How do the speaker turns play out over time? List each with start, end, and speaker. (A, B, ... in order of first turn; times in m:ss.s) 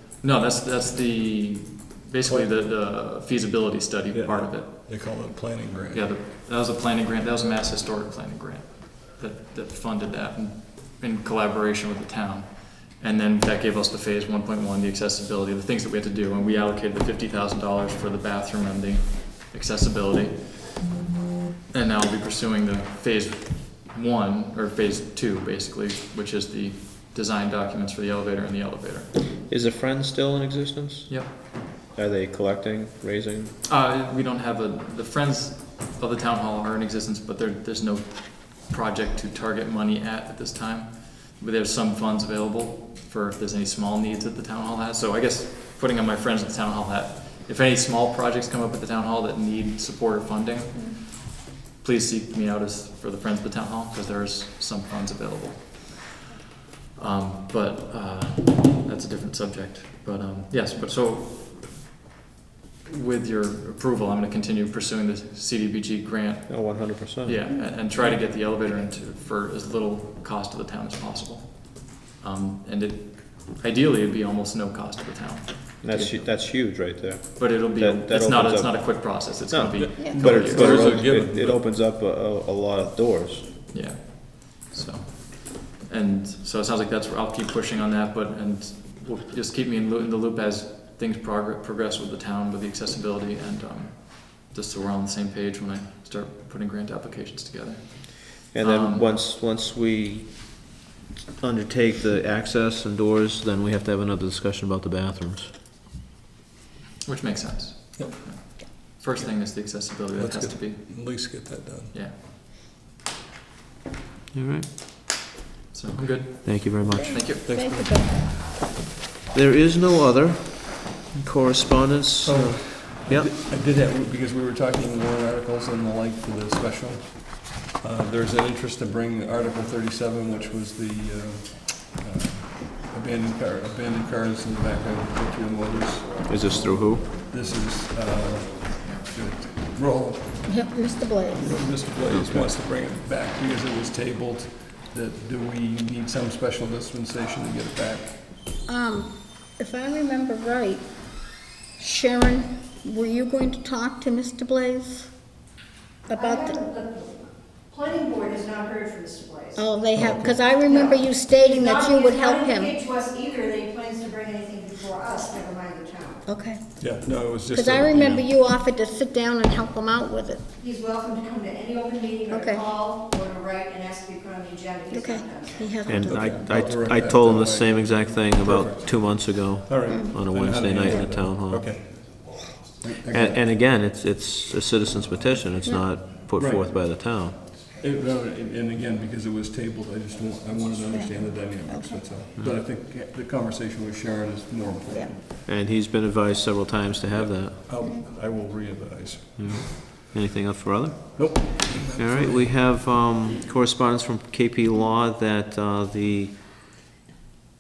0:00.2-0:04.8 A
0:02.2-0:02.5 B
0:04.1-0:06.0 B
0:05.9-0:20.8 A
0:21.7-0:29.2 A
0:29.5-0:31.2 C
0:31.9-0:33.5 C
0:33.6-0:56.2 A
0:50.7-0:51.0 D
0:57.0-1:01.8 A
1:02.8-1:16.8 A
1:06.5-1:07.4 C
1:15.8-1:23.5 C
1:17.4-1:20.9 A
1:20.0-1:21.6 B
1:23.7-1:39.0 A
1:38.5-1:40.6 C
1:41.4-1:45.5 C
1:47.0-1:50.9 A
1:50.1-1:51.9 B
1:54.3-1:54.7 C
1:55.7-1:57.5 A
1:56.4-1:57.2 C
1:56.9-1:58.2 D
1:57.4-1:58.4 B
1:59.3-2:03.3 C
2:02.2-2:20.5 B
2:16.3-2:17.1 C
2:20.4-2:21.5 D
2:21.3-2:28.2 B
2:22.1-2:22.5 C
2:28.7-2:30.8 D
2:31.8-2:35.1 D
2:36.1-2:36.6 D
2:36.1-2:39.6 E
2:39.5-2:42.8 D
2:39.9-2:40.4 B
2:40.6-2:46.2 E
2:46.2-2:46.6 D
2:46.8-2:48.3 B
2:47.5-2:50.4 D
2:50.6-2:56.0 E
2:52.3-2:52.6 D
2:54.9-2:56.5 D
2:55.9-3:01.7 C
2:56.1-3:03.4 B
2:59.9-3:00.2 D
3:03.1-3:07.4 C
3:06.4-3:06.6 B
3:07.7-3:15.2 B
3:10.9-3:12.1 D
3:15.4-3:17.6 C
3:17.1-3:19.8 B
3:17.8-3:18.1 D
3:19.4-3:26.4 C
3:21.1-3:22.4 B